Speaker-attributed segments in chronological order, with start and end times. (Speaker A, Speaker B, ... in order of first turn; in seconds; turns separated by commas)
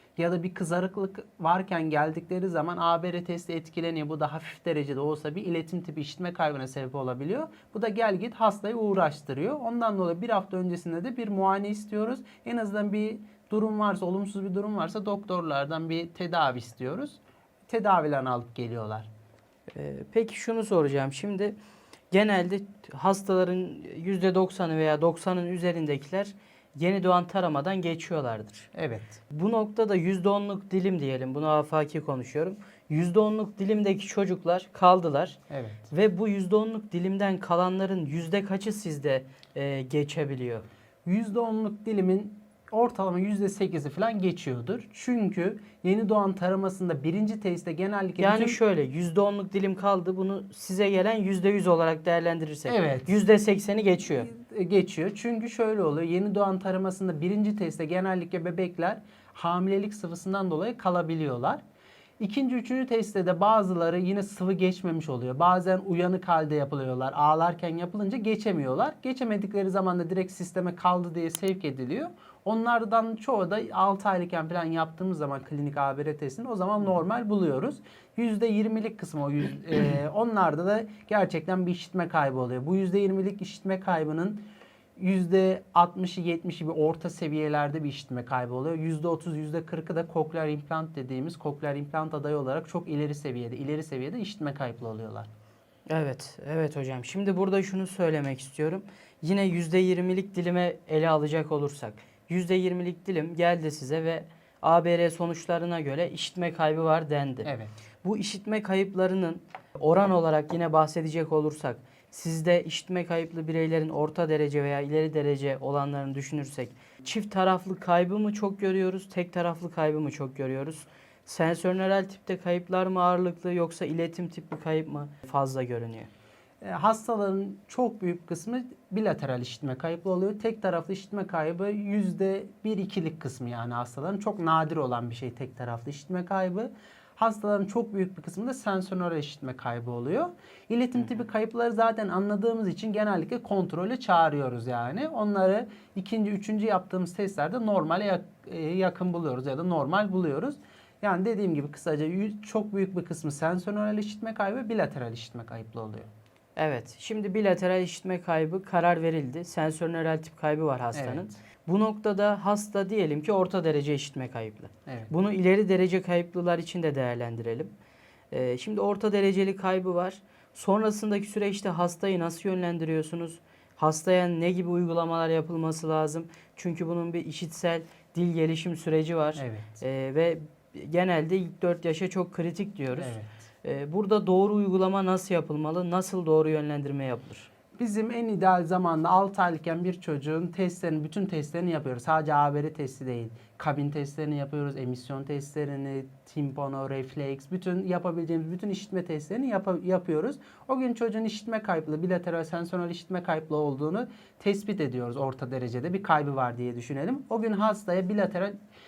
Speaker A: 0.2-19.1, Speaker B: 19.7-21.6, Speaker B: 22.1-28.7, Speaker A: 28.7-29.2, Speaker B: 29.3-35.4, Speaker A: 35.5-35.9, Speaker B: 35.9-40.6, Speaker A: 41.1-48.6, Speaker B: 48.2-54.3, Speaker A: 52.7-53.1, Speaker A: 54.1-61.6, Speaker A: 62.2-84.4, Speaker A: 85.0-95.3, Speaker B: 95.9-107.5, Speaker A: 107.5-107.7, Speaker B: 108.0-126.1, Speaker A: 126.6-156.1, Speaker B: 156.6-167.7, Speaker A: 160.9-161.3, Speaker B: 168.3-187.5, Speaker A: 179.4-179.8, Speaker A: 183.0-183.3, Speaker A: 187.8-208.6